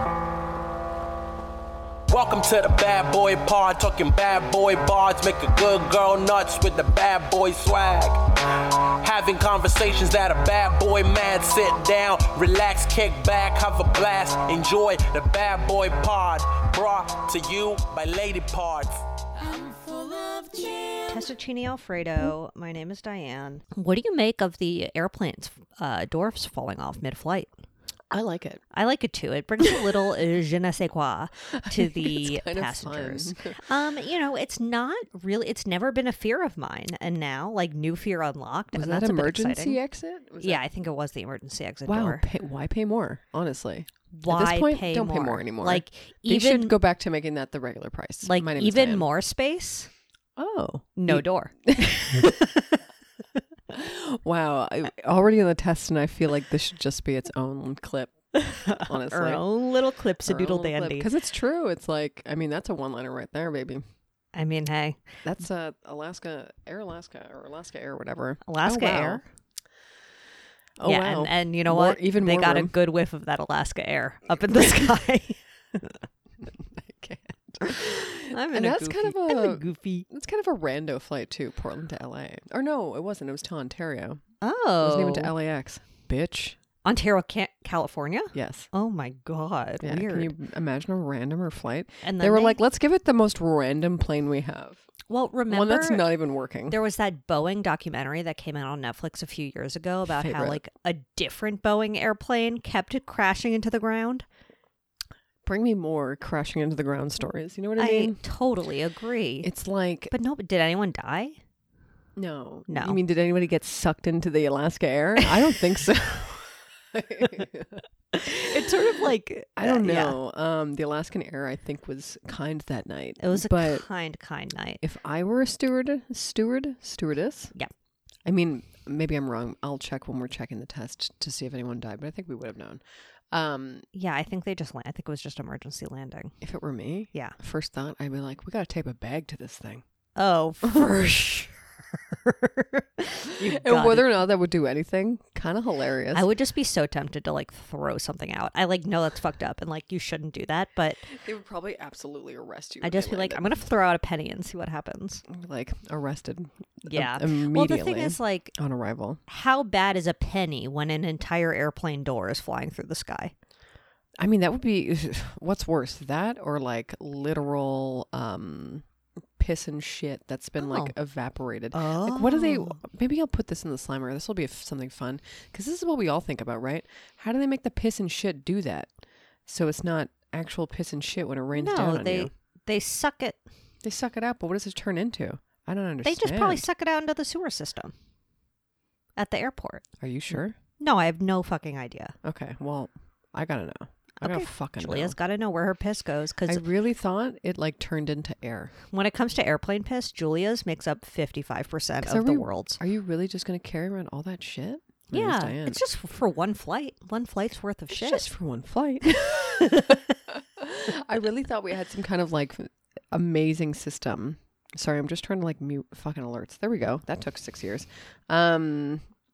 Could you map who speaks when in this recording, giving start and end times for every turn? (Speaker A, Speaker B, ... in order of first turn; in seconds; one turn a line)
Speaker A: 2.1-21.0
Speaker B: 21.1-27.5
Speaker C: 28.1-28.6
Speaker B: 28.7-39.8
Speaker C: 31.6-33.6
Speaker C: 38.7-40.6
Speaker B: 40.4-42.2
Speaker C: 41.9-49.1
Speaker B: 44.1-46.7
Speaker B: 48.2-49.9
Speaker C: 50.4-52.4
Speaker B: 51.0-52.6
Speaker C: 53.7-58.1
Speaker B: 58.3-61.1
Speaker C: 58.6-59.4
Speaker C: 60.2-63.8
Speaker B: 64.3-65.1
Speaker C: 65.2-69.2
Speaker B: 68.4-69.2
Speaker C: 70.8-72.7
Speaker B: 70.8-75.9
Speaker C: 76.4-84.2
Speaker B: 77.7-80.1
Speaker B: 84.4-85.3
Speaker C: 84.8-86.6
Speaker B: 86.8-90.3
Speaker C: 88.3-88.7
Speaker C: 89.8-94.8
Speaker B: 92.0-92.6
Speaker B: 95.1-96.1
Speaker C: 95.5-96.8
Speaker B: 96.7-104.2
Speaker C: 100.1-100.6
Speaker C: 105.4-108.2
Speaker B: 107.8-109.5
Speaker C: 109.4-110.1
Speaker B: 110.1-111.4
Speaker C: 112.2-117.8
Speaker B: 112.7-113.0
Speaker B: 118.1-120.2
Speaker C: 119.6-123.8
Speaker B: 123.2-124.8
Speaker C: 124.8-127.5
Speaker C: 128.2-133.9
Speaker B: 133.9-136.3
Speaker C: 136.4-139.8
Speaker B: 140.2-141.5
Speaker C: 140.6-141.1
Speaker B: 142.1-144.1
Speaker C: 143.4-146.3
Speaker B: 146.1-151.1
Speaker C: 151.1-153.5
Speaker B: 152.8-155.2
Speaker C: 155.3-159.2
Speaker B: 156.8-158.5
Speaker B: 159.3-163.3
Speaker C: 164.2-168.8
Speaker C: 169.4-178.9
Speaker B: 170.6-170.9
Speaker B: 171.7-172.8
Speaker C: 179.5-182.3
Speaker B: 181.5-183.4
Speaker C: 183.8-186.6
Speaker B: 186.0-187.9
Speaker B: 189.2-189.8
Speaker C: 190.0-190.6
Speaker B: 190.8-192.1
Speaker C: 192.2-195.2
Speaker B: 194.2-196.6
Speaker C: 196.5-198.7
Speaker B: 198.9-202.8
Speaker C: 202.0-205.8
Speaker B: 205.1-208.2
Speaker C: 207.9-219.1
Speaker B: 209.5-210.0